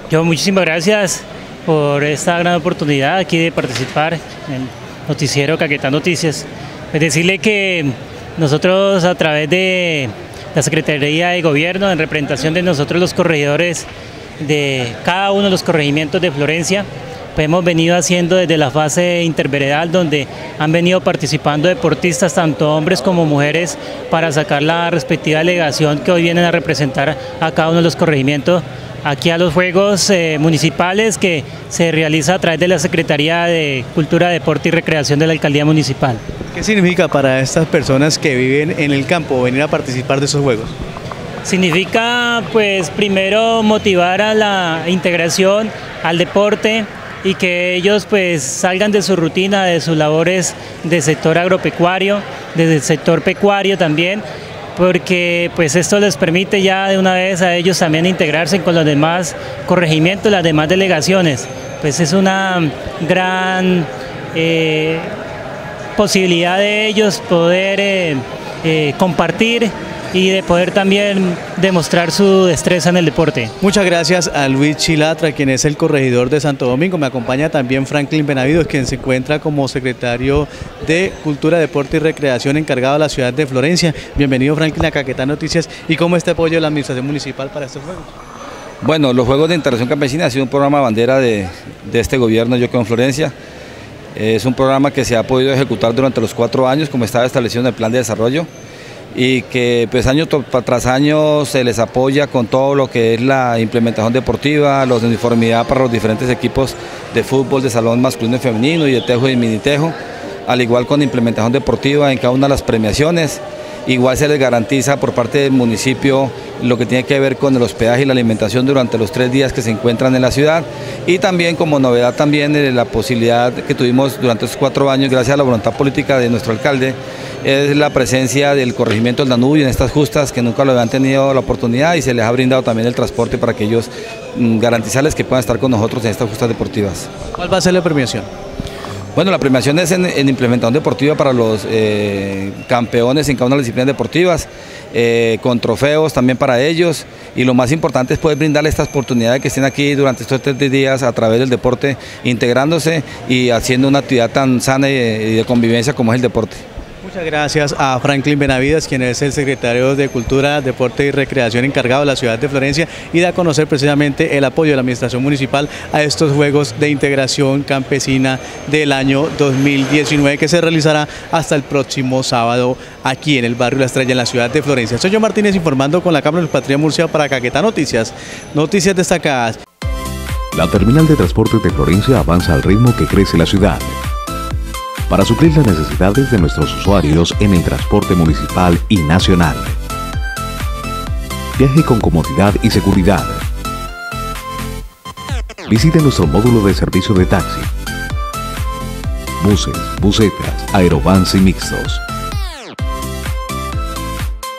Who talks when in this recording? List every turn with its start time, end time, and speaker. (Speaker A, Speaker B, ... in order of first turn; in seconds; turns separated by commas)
Speaker A: 0.1-36.2, Speaker B: 36.5-40.7, Speaker A: 41.4-65.2, Speaker A: 66.0-73.5, Speaker B: 73.6-88.1, Speaker C: 88.8-93.3, Speaker C: 94.1-98.5, Speaker C: 99.1-109.9, Speaker C: 110.5-137.1, Speaker B: 137.3-138.3, Speaker C: 139.1-156.6, Speaker B: 157.0-179.6, Speaker D: 180.5-184.0, Speaker D: 185.1-189.8, Speaker D: 191.6-193.4, Speaker D: 195.7-197.7, Speaker D: 199.4-202.0